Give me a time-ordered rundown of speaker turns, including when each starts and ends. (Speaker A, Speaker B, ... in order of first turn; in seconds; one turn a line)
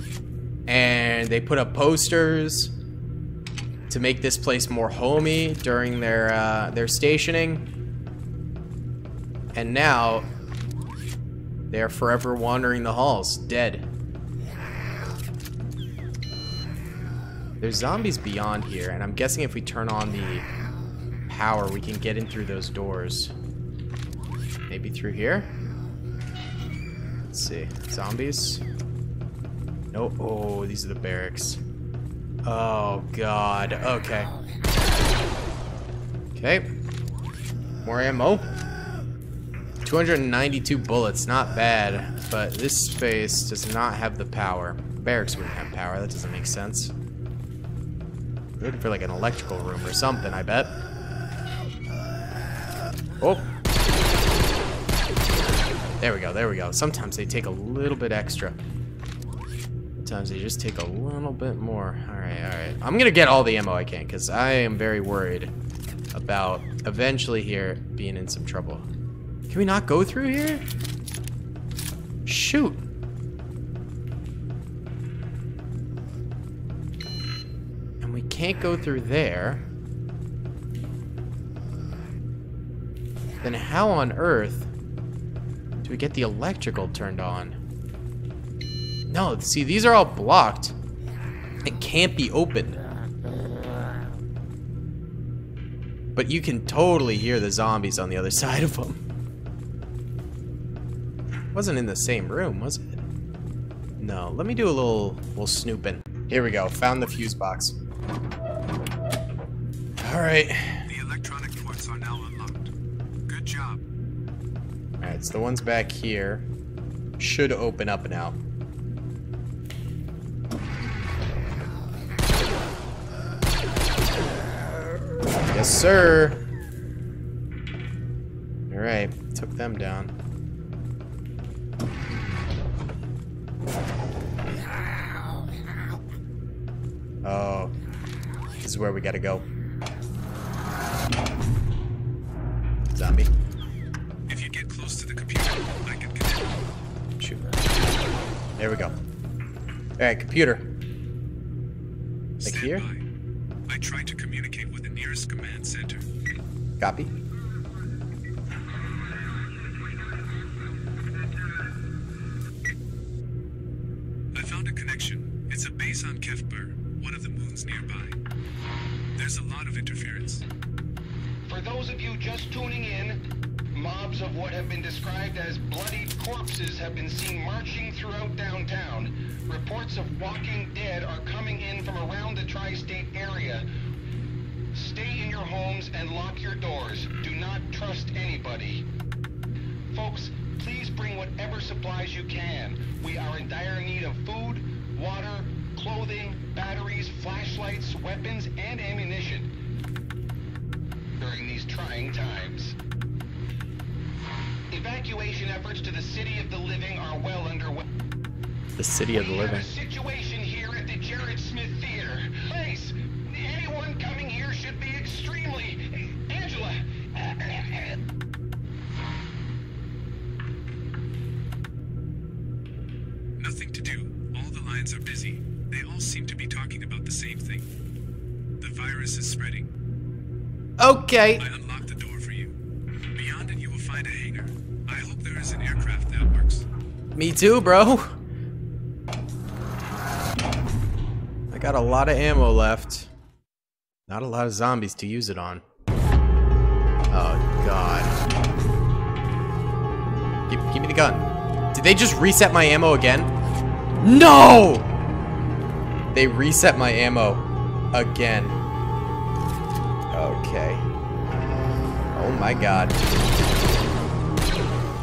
Speaker A: 0.7-2.7
Speaker A: 3.9-7.7
Speaker A: 9.5-10.3
Speaker A: 11.7-13.9
Speaker A: 17.6-20.5
Speaker A: 21.3-23.3
Speaker A: 24.7-25.5
Speaker A: 27.3-28.6
Speaker A: 29.9-31.6
Speaker A: 32.5-34.3
Speaker A: 36.4-36.7
Speaker A: 37.8-38.5
Speaker A: 39.8-46.9
Speaker A: 48.6-50.7
Speaker A: 53.2-53.4
Speaker A: 56.0-58.6
Speaker A: 60.0-65.5
Speaker A: 66.1-68.8
Speaker A: 69.5-70.6
Speaker A: 72.2-72.8
Speaker A: 78.0-79.6
Speaker A: 83.4-84.7
Speaker A: 85.8-87.5
Speaker A: 89.1-90.7
Speaker A: 91.6-92.8
Speaker A: 96.2-99.0
Speaker A: 101.5-102.9
Speaker A: 104.0-107.8
Speaker A: 110.0-110.9
Speaker B: 110.9-112.7
Speaker B: 113.3-113.8
Speaker A: 115.0-116.5
Speaker A: 117.2-118.4
Speaker A: 125.5-126.4
Speaker A: 128.7-130.1
Speaker A: 137.2-137.7
Speaker A: 138.6-139.4
Speaker A: 142.9-143.3
Speaker B: 144.3-146.6
Speaker A: 148.6-148.9
Speaker A: 150.0-150.7
Speaker B: 152.4-153.0
Speaker A: 152.4-152.8
Speaker B: 153.7-156.1
Speaker A: 156.8-157.1
Speaker B: 164.3-168.2
Speaker B: 169.2-170.4
Speaker C: 171.5-173.2
Speaker C: 173.7-183.6
Speaker C: 184.7-188.8
Speaker C: 189.9-199.5
Speaker C: 201.2-202.7
Speaker C: 204.7-207.8
Speaker A: 208.8-209.7
Speaker C: 209.1-218.0
Speaker B: 223.4-227.7
Speaker B: 228.6-229.7
Speaker A: 230.8-231.4
Speaker B: 231.4-232.5
Speaker B: 233.1-236.7
Speaker A: 237.1-238.2
Speaker A: 241.5-243.1
Speaker A: 244.1-245.6
Speaker A: 247.1-248.1
Speaker A: 250.5-253.3
Speaker A: 254.0-254.9
Speaker A: 256.1-258.6
Speaker A: 260.1-260.9
Speaker A: 262.1-263.0